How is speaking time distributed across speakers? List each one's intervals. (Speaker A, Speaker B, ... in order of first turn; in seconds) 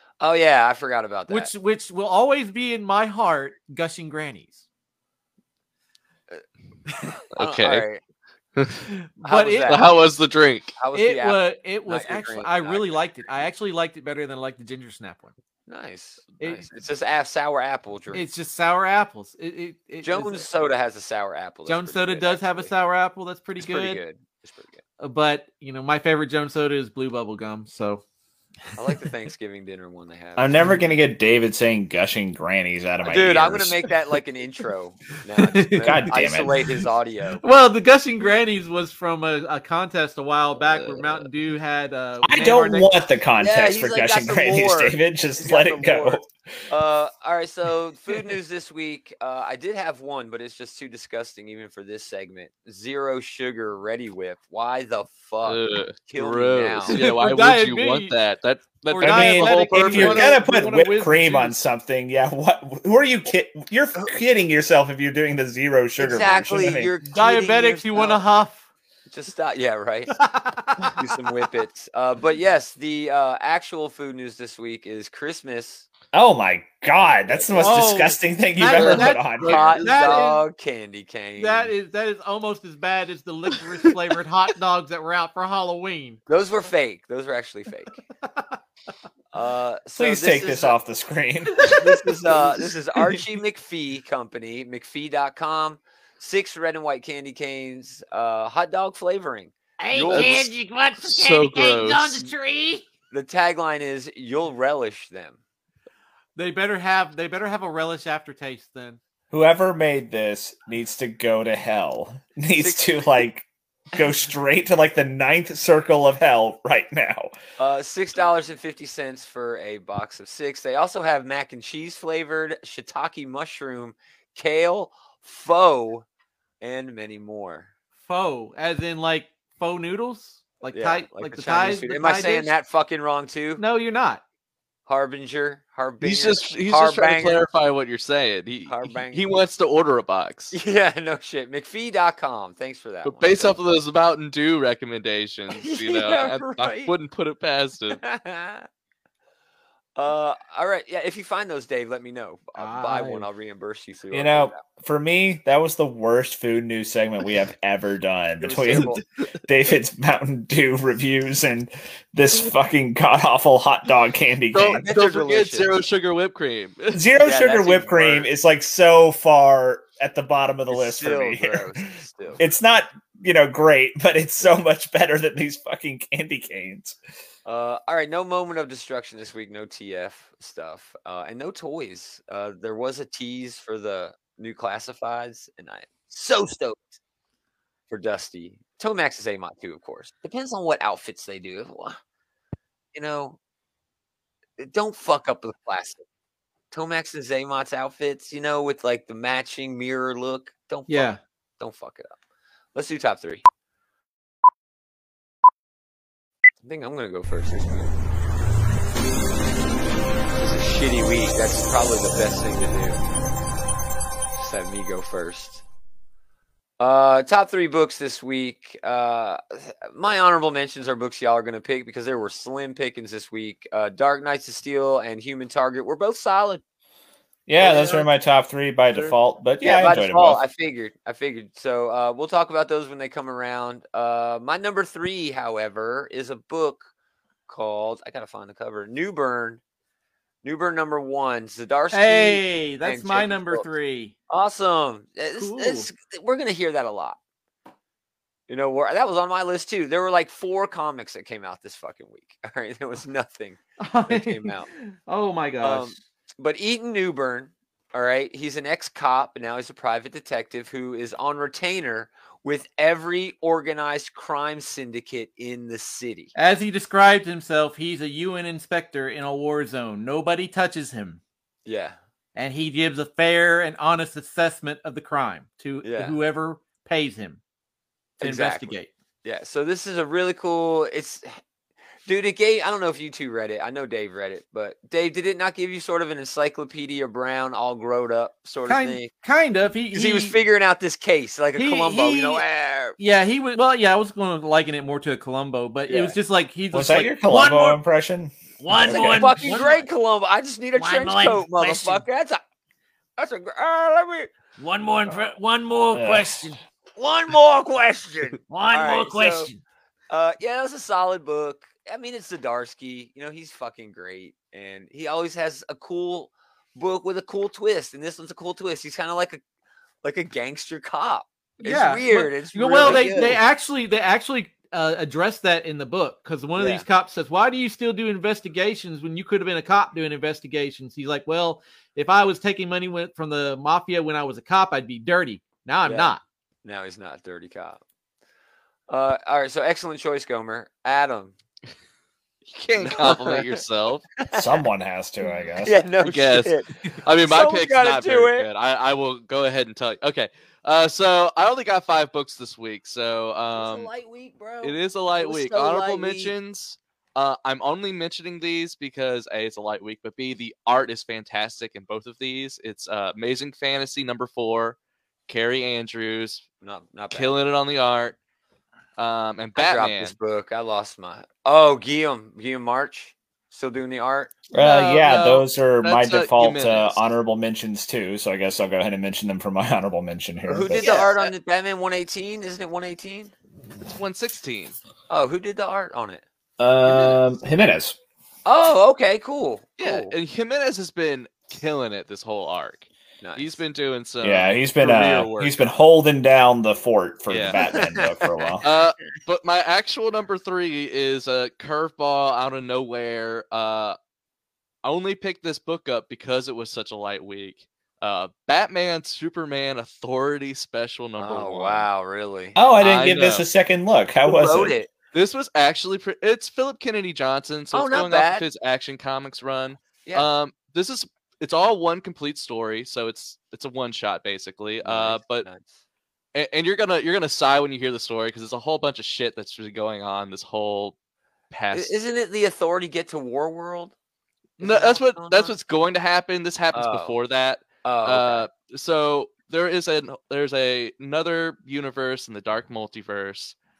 Speaker A: 0.2-1.5, 7.3-8.0, 9.2-9.9, 10.8-13.4, 15.7-18.2, 20.0-22.7, 23.6-24.8, 28.8-30.5, 33.0-37.4, 43.4-57.0, 66.0-68.2, 69.1-70.1, 70.9-75.8, 77.2-77.8, 78.8-81.7, 86.3-88.0, 89.3-90.8, 91.8-100.5, 103.1-105.4, 112.6-113.2, 117.6-126.0, 126.6-127.7, 130.7-133.6, 134.8-137.4, 138.7-139.4, 140.5-143.6, 145.5-146.9, 147.9-148.7, 149.9-154.6, 158.4-159.0, 164.8-165.7, 167.2-168.3, 170.7-172.4, 177.4-187.0, 187.9-192.0, 192.9-193.4, 194.6-196.0, 196.7-202.1, 202.7-203.4, 206.6-207.9, 210.3-213.0, 214.3-215.6, 216.8-226.6, 227.6-228.1, 229.6-236.9, 237.5-239.6, 240.4-243.7, 244.3-247.2, 248.5-254.7, 255.6-266.3, 271.6-272.0, 275.8-276.1, 278.2-281.4, 282.1-289.1, 289.9-293.0, 295.9-296.1, 298.8-302.4, 303.2-304.3, 307.0-309.5, 310.1-319.4, 320.0-323.4, 326.6-326.9, 335.8-337.8, 338.9-341.3, 342.8-343.6, 344.2-344.6, 345.6-348.5, 353.5-356.3, 366.6-367.3, 369.6-374.3, 380.5-383.3, 385.1-386.2, 388.4-390.1, 393.2-393.6, 397.6-398.6, 411.2-412.6, 414.2-414.9, 417.7-418.4, 424.8-425.8, 431.7-433.9, 434.6-435.5, 436.7-437.1, 437.8-438.5
Speaker B: 1.3-4.6, 8.9-9.8, 10.9-15.3, 18.1-20.5, 21.6-24.0, 25.0-28.0, 35.4-36.1, 37.4-42.9, 56.9-58.1, 58.9-61.6, 67.1-68.6, 70.1-71.1, 77.6-80.4, 81.4-86.2, 106.3-109.0, 128.0-132.5, 133.6-134.2, 152.6-153.3, 200.9-201.2, 241.9-244.1, 245.3-245.9, 253.8-256.0, 266.4-271.2, 272.4-277.4, 278.2-278.9, 288.7-290.4, 291.5-292.4, 293.0-297.2, 321.6-336.2
Speaker C: 7.3-7.8, 8.6-8.9, 9.7-10.8, 40.7-41.2, 55.4-60.3, 78.7-80.2, 100.1-100.4, 101.0-102.3, 136.0-140.6, 143.0-148.0, 164.5-167.0, 342.5-344.0, 346.0-353.9, 354.6-364.8, 365.3-366.4, 367.1-368.2, 369.0-370.1, 374.6-377.0, 380.8-381.3, 383.8-384.8, 389.8-395.6, 397.3-397.6, 398.6-404.0, 404.8-411.9, 412.8-413.4, 415.1-425.5, 426.3-430.9, 431.5-431.9, 434.6-443.6
Speaker D: 30.4-33.8, 35.8-36.6, 42.2-46.3, 59.0-66.9, 76.1-79.8, 90.0-91.7, 109.3-117.3, 154.1-164.8, 166.9-171.8, 172.4-177.0, 227.5-230.4, 296.7-299.3, 305.9-306.5, 344.3-345.8, 374.5-381.1, 386.6-387.9, 394.2-398.6, 412.6-414.7
Speaker E: 99.8-102.8, 297.2-297.8, 298.6-299.9, 300.7-302.0, 304.6-306.6, 308.5-309.6